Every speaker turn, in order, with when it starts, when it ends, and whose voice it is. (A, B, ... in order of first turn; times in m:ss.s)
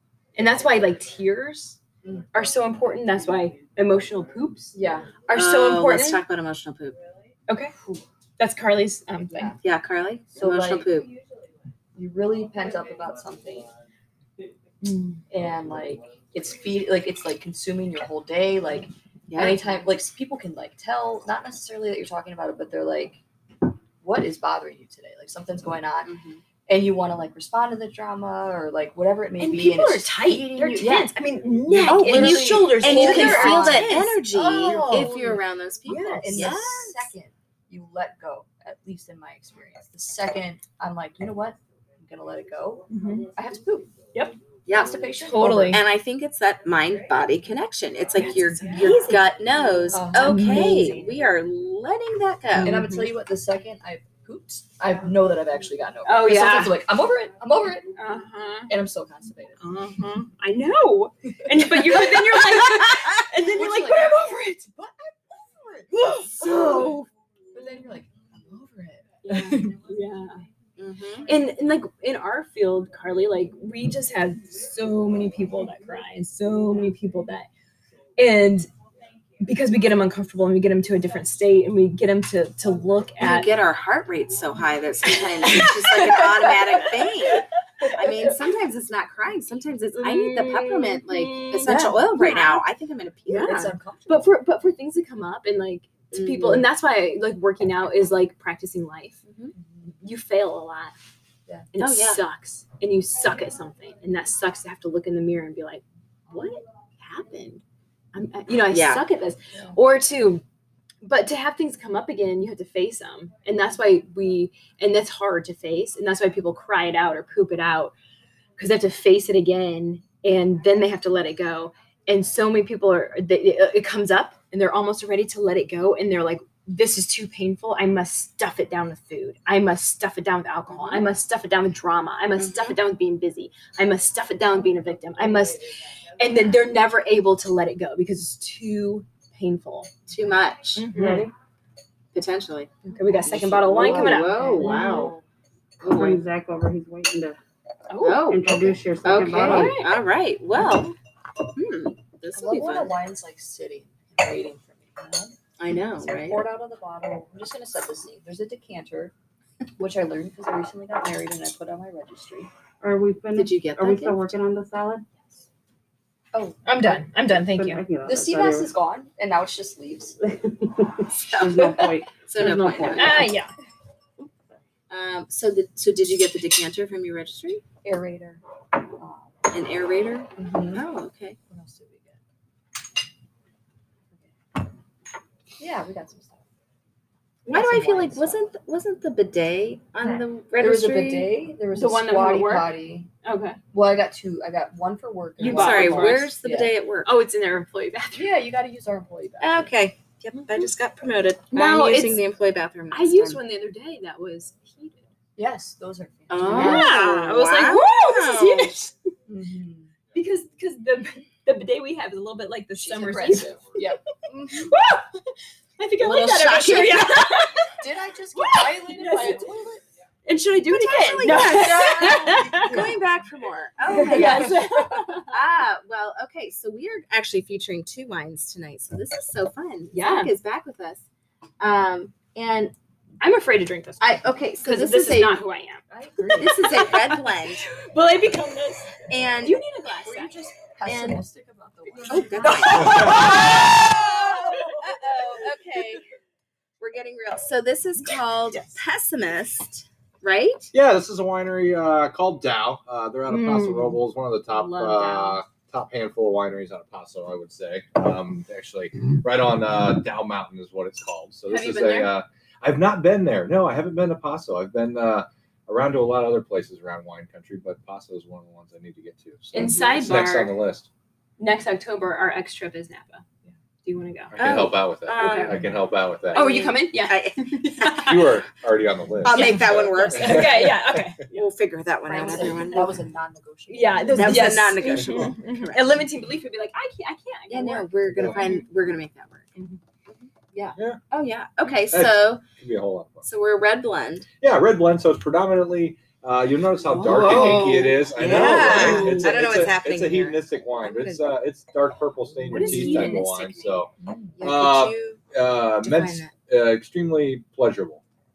0:00.4-0:01.8 A
0:02.3-0:04.8 A
0:04.7-0:05.2 B
0:05.3-0:06.2 A
0:05.3-0:07.0 C
0:07.5-0:07.7 A
0:08.4-0:09.5 A
0:09.6-0:11.1 C
0:10.4-0:10.9 B
0:11.9-0:13.7 B
0:14.8-0:15.2 A
0:15.3-0:23.2 B
0:19.3-0:19.6 C
0:24.0-0:26.1 B
0:26.0-0:26.4 C
0:26.7-0:31.2 B
0:29.4-0:35.3 A
0:31.8-0:43.9 B
0:31.8-0:37.1 C
0:35.8-0:36.5 A
0:42.9-0:43.3 A
0:44.7-0:45.1 C
0:44.7-0:45.8 B
0:45.2-0:45.8 A
0:45.6-0:52.8 C
0:48.2-0:49.2 A
0:49.9-0:50.5 B
0:50.1-0:51.1 A
0:52.5-0:53.1 A
0:52.6-0:58.0 B
0:56.0-0:56.8 A
0:58.0-0:58.7 A
0:58.7-0:59.6 B
0:59.6-1:04.6 A
1:01.4-1:09.8 B
1:05.9-1:07.1 A
1:09.2-1:10.4 A
1:10.8-1:11.3 C
1:11.2-1:17.5 A
1:18.2-1:18.7 A
1:19.4-1:23.5 A
1:23.2-1:33.7 C
1:25.4-1:28.3 A
1:30.0-1:32.6 A
1:31.7-1:31.9 B
1:33.3-1:39.2 A
1:33.4-1:34.3 B
1:36.1-1:36.7 C
1:39.2-1:39.5 C
1:40.0-1:40.9 A
1:41.7-1:47.6 A
1:41.8-1:42.2 C
1:48.1-1:50.4 A
1:48.7-1:49.0 C
1:51.0-1:57.9 A
1:58.6-2:15.6 A
2:12.4-2:12.8 C
2:16.2-2:19.9 A
2:20.1-2:20.9 C
2:20.8-2:21.3 A
2:20.9-2:21.3 D
2:22.1-2:22.7 C
2:22.8-2:25.0 A
2:23.2-2:25.1 C
2:23.3-2:25.2 B
2:24.6-2:25.0 D
2:25.8-2:26.2 C
2:25.8-2:27.4 D
2:27.9-2:28.2 A
2:28.0-2:30.9 C
2:28.2-2:29.8 D
2:29.4-2:29.9 A
2:31.5-2:33.0 C
2:32.3-2:35.3 B
2:35.6-2:36.4 C
2:36.0-2:39.1 B
2:39.8-2:42.5 B
2:42.8-2:45.3 D
2:43.3-2:44.3 C
2:46.3-2:46.7 B
2:46.6-2:47.8 A
2:47.4-2:48.7 D
2:48.0-2:50.1 B
2:50.2-2:53.4 D
2:51.1-2:53.3 C
2:52.9-2:53.5 A
2:54.9-2:57.6 C
2:57.8-2:59.3 B
2:59.5-3:01.4 C
3:00.4-3:00.8 B
3:01.5-3:02.2 B
3:05.6-3:06.4 B
3:07.4-3:11.3 C
3:07.5-3:08.4 B
3:10.6-3:13.1 B
3:11.7-3:13.6 A
3:13.7-3:16.7 B
3:15.4-3:16.3 A
3:15.5-3:17.1 C
3:17.0-3:18.3 A
3:18.1-3:19.7 B
3:19.4-3:23.4 C
3:21.5-3:22.2 A
3:22.9-3:25.0 A
3:25.4-3:27.0 B
3:26.3-3:28.7 C
3:26.4-3:28.9 A
3:29.3-3:29.9 B
3:30.1-3:33.9 A
3:32.8-3:34.8 B
3:34.5-3:37.8 A
3:36.0-3:37.4 C
3:37.7-3:39.8 B
3:38.3-3:39.5 A
3:40.2-3:42.9 A
3:40.7-3:44.6 C
3:41.1-3:43.2 B
3:43.9-3:45.3 A
3:43.9-3:44.8 B
3:45.3-3:51.0 C
3:49.9-3:50.3 A
3:51.6-3:52.3 C
3:52.3-4:01.2 A
3:54.0-3:55.4 C
3:55.9-3:56.8 B
3:56.4-3:57.6 C
3:59.1-3:59.6 C
4:00.0-4:05.2 B
4:02.0-4:03.8 A
4:02.1-4:06.0 C
4:02.8-4:03.2 E
4:04.5-4:04.9 A
4:06.8-4:10.7 C
4:08.5-4:08.8 A
4:10.7-4:30.9 E
4:13.3-4:15.4 A
4:21.5-4:22.1 A
4:29.5-4:30.5 A
4:29.5-4:30.2 C
4:31.4-4:33.2 A
4:33.8-4:35.7 A
4:34.3-4:36.5 E
4:34.4-4:35.7 C
4:36.3-4:38.1 C
4:36.3-4:38.4 A
4:38.0-4:41.1 E
4:39.2-4:40.8 C
4:39.3-4:41.5 A
4:41.3-4:43.0 C
4:42.1-4:44.8 B
4:43.7-4:48.7 A
4:44.1-4:46.0 C
4:47.5-4:49.5 C
4:50.1-4:52.4 C
4:50.8-4:51.0 E
4:51.8-4:53.3 E
4:53.2-4:54.3 C
4:54.4-5:08.0 E
4:56.9-5:01.4 C
4:56.9-4:59.4 A
5:02.5-5:03.8 A
5:04.0-5:04.4 B
5:04.4-5:05.2 C
5:05.8-5:06.3 C